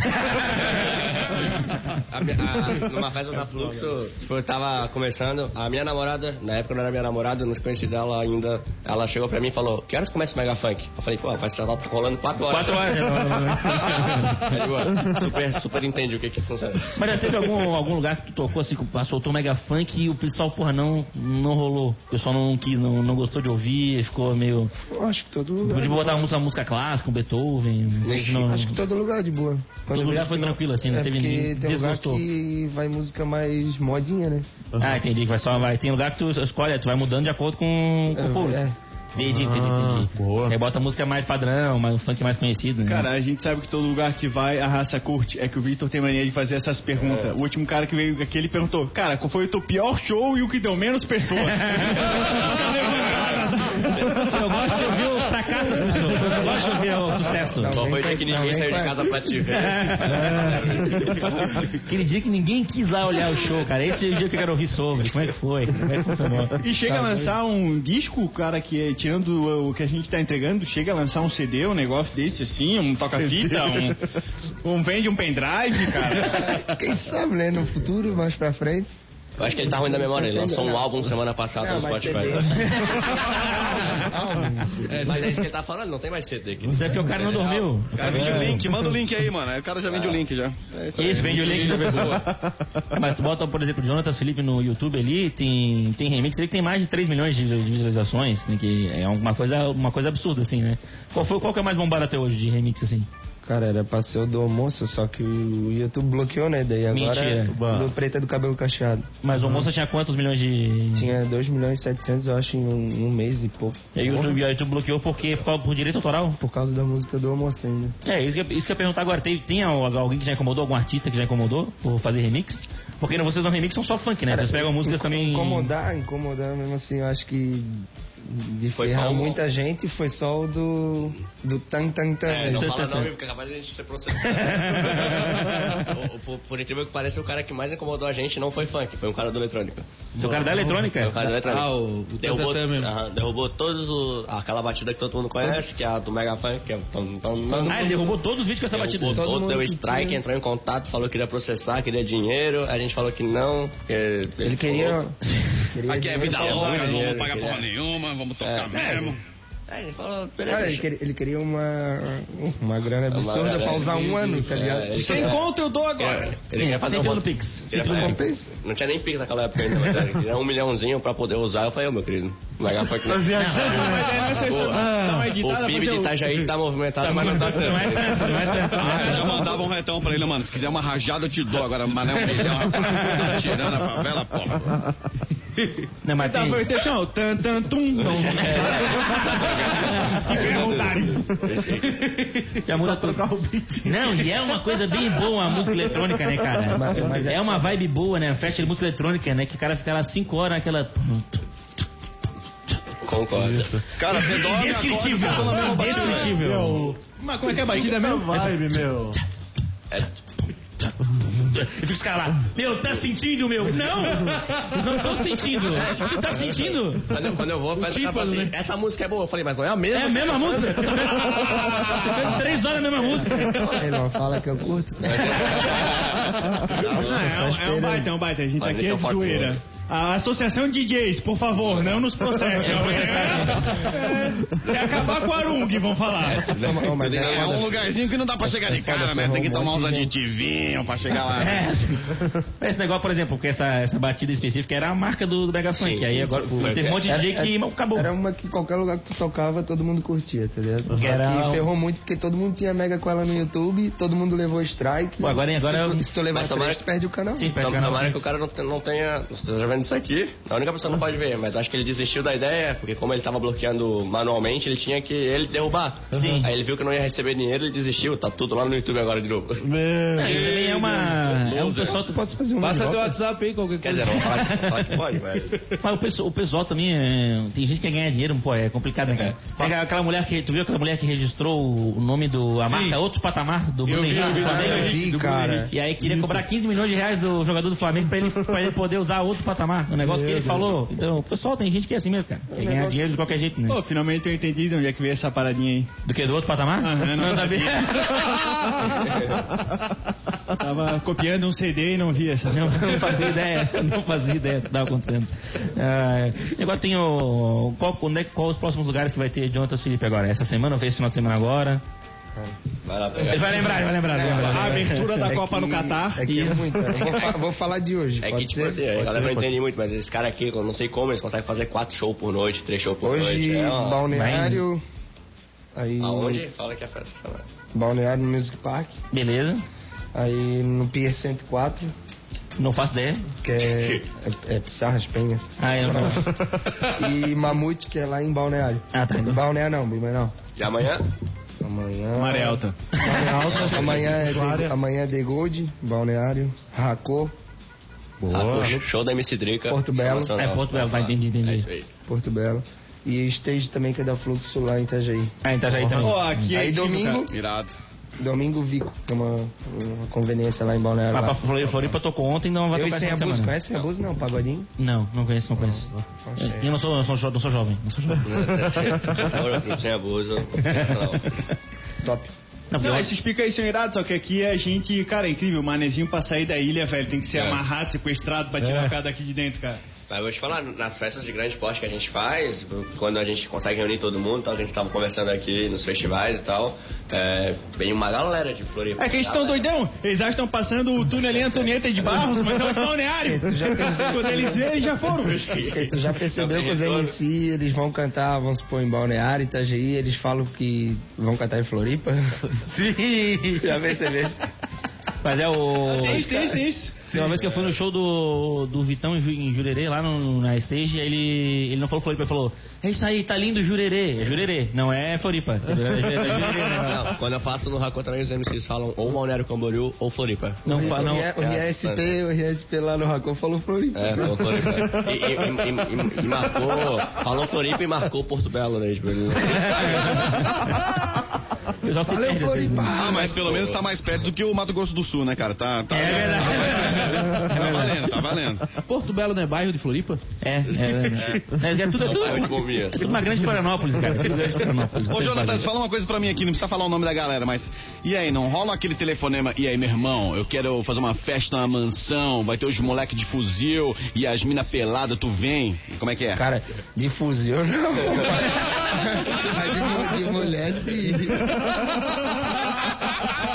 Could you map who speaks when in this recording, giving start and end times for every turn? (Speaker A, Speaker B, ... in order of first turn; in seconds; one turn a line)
Speaker A: 0.2-0.7
Speaker B: 0.7-17.2
Speaker A: 12.4-14.6
Speaker A: 16.9-24.7
Speaker C: 24.8-26.3
Speaker A: 25.6-28.8
Speaker B: 28.0-28.5
Speaker C: 28.1-34.5
Speaker A: 29.9-32.2
Speaker A: 34.8-38.6
Speaker C: 38.1-38.8
Speaker A: 39.1-43.1
Speaker D: 39.2-40.6
Speaker E: 42.8-54.2
Speaker B: 47.0-47.3
Speaker A: 51.5-52.5
Speaker B: 53.0-55.0
Speaker A: 54.0-57.7
Speaker C: 57.5-59.3
Speaker B: 57.6-61.8
Speaker A: 59.5-60.6
Speaker D: 60.1-60.7
Speaker A: 61.8-66.6
Speaker E: 66.6-74.0
Speaker C: 66.8-67.3
Speaker D: 73.2-73.7
Speaker E: 74.6-76.6
Speaker C: 76.2-78.9
Speaker B: 79.4-83.6
Speaker C: 79.4-85.3
Speaker A: 82.5-84.0
Speaker F: 84.9-85.4
Speaker B: 85.0-87.7
Speaker A: 86.7-88.6
Speaker G: 87.9-91.9
Speaker C: 88.1-88.6
Speaker D: 88.1-88.6
Speaker B: 89.9-90.2
Speaker C: 90.7-91.4
Speaker A: 91.0-92.3
Speaker B: 91.0-92.2
Speaker D: 91.5-92.8
Speaker A: 92.9-103.1
Speaker C: 103.4-109.1
Speaker A: 106.9-107.6
Speaker D: 107.5-107.9
Speaker A: 109.2-111.1
Speaker D: 109.3-109.7
Speaker C: 110.9-113.9
Speaker A: 113.9-116.4
Speaker D: 114.0-114.4
Speaker C: 116.4-118.0
Speaker A: 118.0-125.7
Speaker C: 124.3-132.7
Speaker B: 128.7-129.4
Speaker B: 132.2-148.0
Speaker A: 132.4-133.1
Speaker A: 134.2-135.9
Speaker A: 140.2-141.3
Speaker F: 140.3-140.6
Speaker F: 141.3-142.9
Speaker C: 145.4-145.6
Speaker C: 147.4-148.0
Speaker A: 147.7-149.3
Speaker B: 148.7-155.0
Speaker C: 149.1-150.2
Speaker C: 154.4-155.2
Speaker C: 155.7-157.0
Speaker G: 155.8-159.2
Speaker B: 156.2-157.7
Speaker B: 158.4-158.9
Speaker C: 158.7-159.2
Speaker B: 159.7-160.8
Speaker C: 160.5-165.3
Speaker B: 163.1-165.5
Speaker E: 164.9-166.4
Speaker B: 166.0-178.7
Speaker A: 166.5-168.2
Speaker C: 167.8-168.5
Speaker D: 173.0-175.3
Speaker A: 173.3-173.9
Speaker E: 173.4-176.3
Speaker A: 177.0-179.4
Speaker G: 178.7-184.7
Speaker D: 179.1-179.4
Speaker A: 182.7-183.3
Speaker A: 186.0-186.7
Speaker E: 186.2-191.3
Speaker B: 188.1-192.0
Speaker A: 188.2-190.5
Speaker A: 192.6-193.2
Speaker D: 192.7-194.4
Speaker A: 193.8-201.4
Speaker C: 196.7-197.7
Speaker D: 196.9-197.3
Speaker B: 203.0-203.8
Speaker D: 203.3-203.8
Speaker G: 203.9-206.4
Speaker A: 204.1-206.9
Speaker D: 205.3-205.6
Speaker E: 205.7-206.2
Speaker D: 206.2-207.0
Speaker E: 207.1-208.8
Speaker D: 207.6-209.2
Speaker A: 210.8-217.1
Speaker B: 215.7-222.4
Speaker A: 217.8-218.5
Speaker A: 219.9-223.7
Speaker B: 223.1-223.8
Speaker C: 223.4-225.8
Speaker B: 225.0-227.3
Speaker A: 225.4-226.0
Speaker E: 226.9-236.6
Speaker C: 227.1-228.1
Speaker B: 228.6-229.6
Speaker A: 232.6-233.9
Speaker B: 232.7-233.2
Speaker B: 236.2-237.9
Speaker C: 236.5-237.8
Speaker G: 237.2-241.7
Speaker C: 238.4-240.1
Speaker A: 241.4-248.1
Speaker B: 245.7-247.0
Speaker C: 247.0-257.8
Speaker A: 250.9-251.7
Speaker A: 255.2-256.1
Speaker B: 256.3-256.8
Speaker A: 257.4-258.2
Speaker B: 257.6-269.7
Speaker D: 266.1-266.5
Speaker A: 266.1-266.5
Speaker D: 269.6-270.6
Speaker A: 270.1-272.2
Speaker G: 270.3-271.0
Speaker C: 270.6-273.2
Speaker G: 271.5-271.9
Speaker F: 272.6-274.4
Speaker B: 273.8-275.6
Speaker A: 274.1-274.9
Speaker A: 275.8-293.8
Speaker B: 279.1-279.4
Speaker F: 282.6-283.0
Speaker F: 283.9-285.6
Speaker C: 284.1-285.7
Speaker D: 286.1-286.3
Speaker D: 290.0-290.8
Speaker C: 292.5-293.1
Speaker E: 293.7-295.9
Speaker A: 296.0-299.1
Speaker E: 296.8-299.1
Speaker E: 300.6-303.3
Speaker A: 302.5-311.8
Speaker B: 312.8-313.9
Speaker A: 313.3-315.4
Speaker C: 314.1-319.0
Speaker E: 314.2-316.6
Speaker A: 316.2-317.1
Speaker B: 318.2-324.0
Speaker D: 319.0-319.5
Speaker C: 323.0-324.8
Speaker A: 324.1-324.6
Speaker C: 325.7-326.4
Speaker B: 326.0-327.4
Speaker C: 327.7-328.9
Speaker A: 329.1-329.6
Speaker C: 330.1-331.9
Speaker A: 332.6-333.2
Speaker C: 333.4-340.4
Speaker A: 335.6-336.3
Speaker A: 338.9-339.4
Speaker B: 340.6-341.1
Speaker C: 341.6-347.3
Speaker E: 342.1-342.9
Speaker D: 343.4-344.7
Speaker B: 343.5-344.0
Speaker D: 348.2-348.8
Speaker B: 348.3-351.9
Speaker C: 348.4-348.8
Speaker C: 349.7-350.3
Speaker A: 350.4-351.7
Speaker C: 352.1-357.3
Speaker A: 355.4-356.5
Speaker E: 355.9-357.2
Speaker G: 357.3-357.7
Speaker C: 358.2-361.9
Speaker A: 361.1-363.5
Speaker C: 362.7-364.7
Speaker A: 364.8-368.6
Speaker C: 365.6-366.7
Speaker B: 368.2-371.4
Speaker A: 370.6-371.2
Speaker C: 372.0-372.3
Speaker A: 372.7-373.1
Speaker E: 372.8-379.8
Speaker B: 377.3-377.6
Speaker D: 378.6-378.9
Speaker B: 380.1-389.7
Speaker E: 389.0-395.4
Speaker C: 393.2-394.6
Speaker B: 395.0-397.2
Speaker C: 395.7-402.5
Speaker A: 402.6-403.7
Speaker C: 403.6-404.4
Speaker A: 405.2-406.3
Speaker E: 405.9-407.0
Speaker A: 407.0-417.1
Speaker B: 416.4-422.1
Speaker A: 420.6-421.3
Speaker C: 420.6-425.3
Speaker B: 423.9-430.4
Speaker A: 429.4-430.9
Speaker A: 431.8-432.9
Speaker C: 432.1-433.4
Speaker G: 432.9-438.6
Speaker B: 433.1-433.8
Speaker A: 435.9-438.0
Speaker F: 438.8-440.2
Speaker A: 440.4-445.7
Speaker B: 440.7-441.4
Speaker B: 442.0-443.2
Speaker G: 445.1-456.4
Speaker C: 456.3-461.8